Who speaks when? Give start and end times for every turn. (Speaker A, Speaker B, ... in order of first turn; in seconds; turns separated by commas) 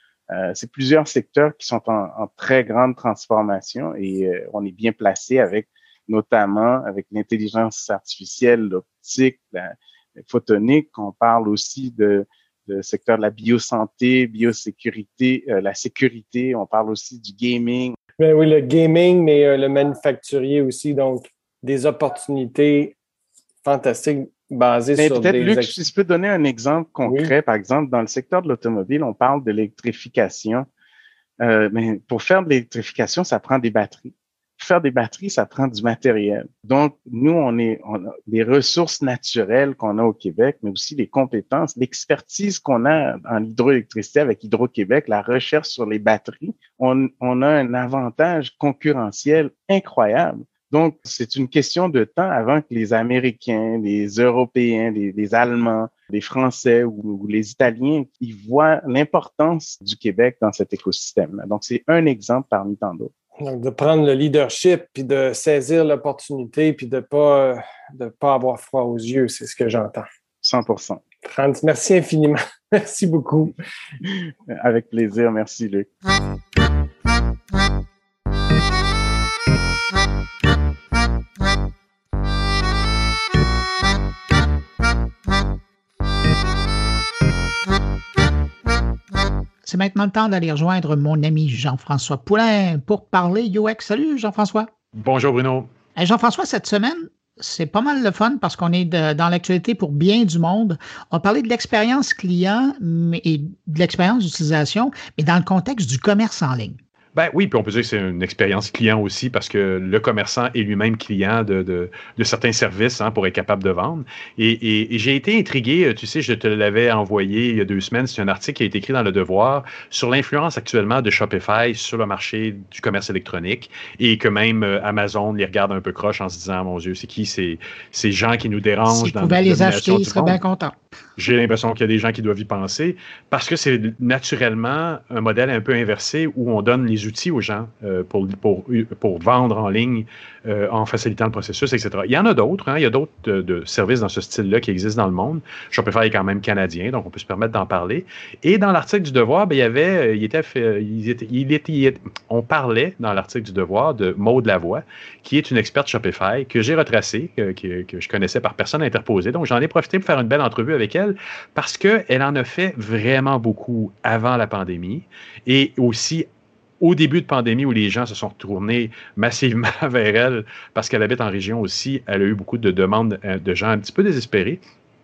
Speaker A: 0.3-17.9, Speaker B: 18.2-22.9, Speaker B: 23.6-25.7, Speaker A: 25.0-30.7, Speaker B: 27.1-27.3, Speaker A: 31.4-63.1, Speaker B: 63.4-70.1, Speaker A: 70.4-71.0, Speaker B: 71.2-73.5, Speaker A: 74.5-75.9, Speaker C: 89.6-94.7, Speaker D: 95.0-95.7, Speaker C: 96.0-106.8, Speaker D: 107.1-130.4, Speaker C: 128.9-130.7, Speaker D: 131.2-166.3, Speaker D: 166.8-174.6